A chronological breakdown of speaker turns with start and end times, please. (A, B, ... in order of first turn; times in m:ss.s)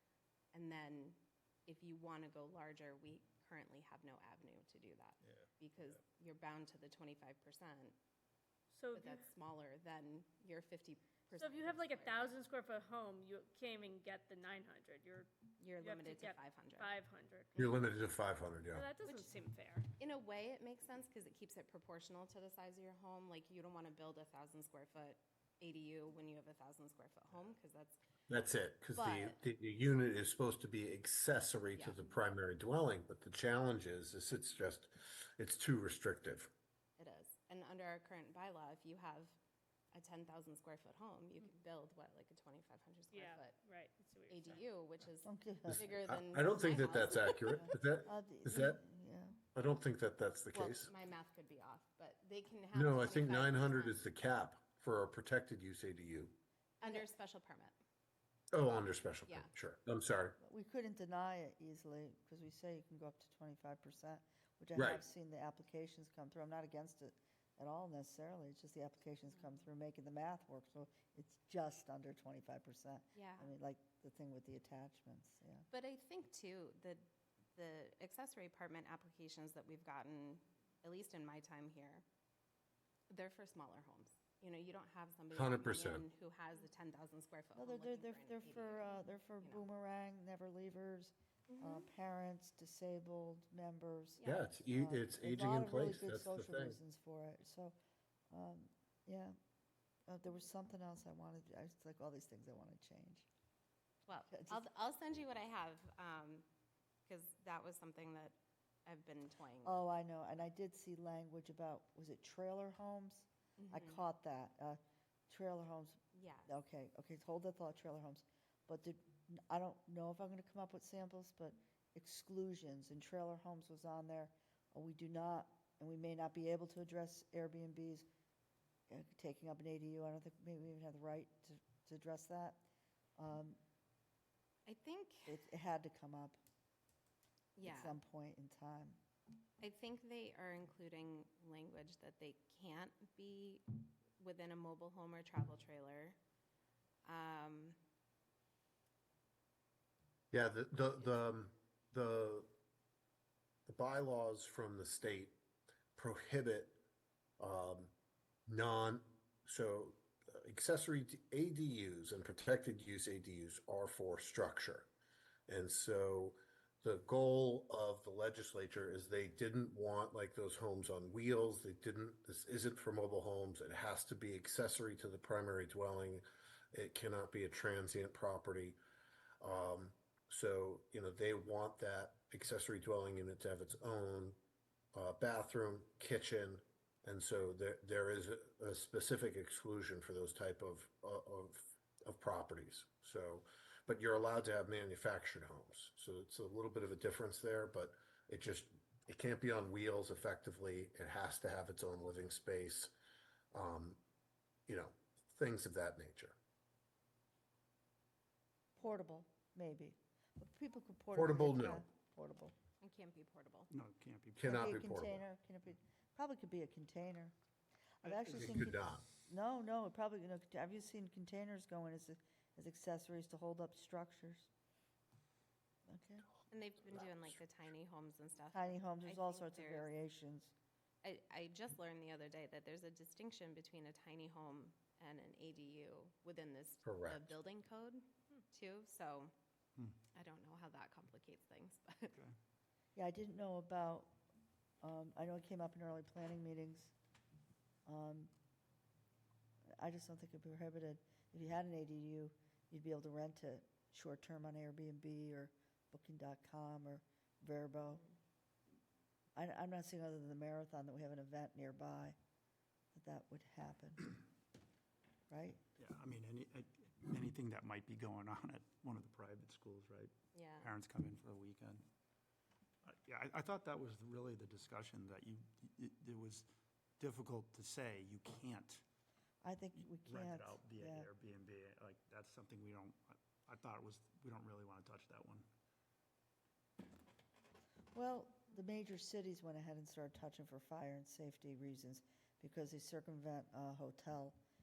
0:00.5-0:08.0 A
0:08.7-0:09.3 B
0:09.0-0:12.3 A
0:11.3-0:17.5 B
0:15.6-0:17.0 A
0:17.5-0:17.8 A
0:17.6-0:18.9 C
0:18.7-0:19.9 B
0:20.0-0:28.0 A
0:28.3-0:36.5 C
0:28.9-0:29.4 A
0:31.7-0:32.2 A
0:37.0-0:39.4 A
0:39.9-0:43.6 A
0:43.1-0:44.6 B
0:44.3-0:47.7 A
0:45.2-0:45.8 D
0:45.7-0:48.8 C
0:47.6-0:49.4 D
0:49.6-0:50.9 C
0:50.5-0:54.0 A
0:52.7-0:56.4 C
0:56.8-0:57.7 A
0:58.5-1:00.4 C
1:00.4-1:15.7 D
1:04.8-1:05.0 C
1:13.2-1:13.5 A
1:15.7-1:22.0 A
1:23.1-1:29.6 A
1:25.3-1:26.1 C
1:27.6-1:37.8 D
1:31.5-1:31.9 A
1:34.2-1:34.6 A
1:34.2-1:36.8 C
1:38.3-1:39.3 D
1:40.1-1:43.3 D
1:44.1-1:46.5 A
1:44.3-1:44.6 D
1:47.1-1:49.8 A
1:49.6-2:08.1 D
1:53.6-1:54.0 A
1:56.1-1:56.5 A
2:08.9-2:12.6 D
2:13.2-2:13.6 D
2:14.7-2:15.4 A
2:15.3-2:16.4 D
2:17.6-2:18.0 A
2:17.6-2:19.0 D
2:19.6-2:26.2 A
2:27.0-2:27.8 A
2:30.3-2:32.5 C
2:31.0-2:31.2 A
2:33.7-2:35.4 C
2:36.0-2:36.8 C
2:37.4-2:37.9 C
2:38.5-2:44.9 C
2:45.5-2:58.8 C
2:59.4-3:04.4 C
3:04.9-3:22.9 C
3:23.5-3:24.0 C
3:24.7-3:26.4 C
3:28.8-3:32.6 D
3:31.1-3:31.8 C
3:32.8-3:33.7 A
3:33.7-3:34.8 E
3:34.4-3:35.2 C
3:34.4-3:37.3 D
3:38.0-3:44.5 D
3:38.1-3:39.0 C
3:45.9-3:46.3 D
3:46.5-3:49.9 A
3:48.5-3:50.5 D
3:51.0-3:59.3 A
3:56.8-3:57.4 C
4:00.1-4:02.2 A
4:03.0-4:04.1 D
4:04.8-4:06.9 D
4:07.9-4:08.3 D
4:09.8-4:18.0 D
4:19.4-4:22.2 D
4:22.9-4:24.1 D
4:25.3-4:25.6 D
4:25.8-4:31.8 E
4:30.3-4:30.7 A
4:32.8-4:36.5 E
4:37.0-4:38.8 E
4:39.4-4:41.1 D
4:39.8-4:45.5 E
4:47.9-4:54.4 D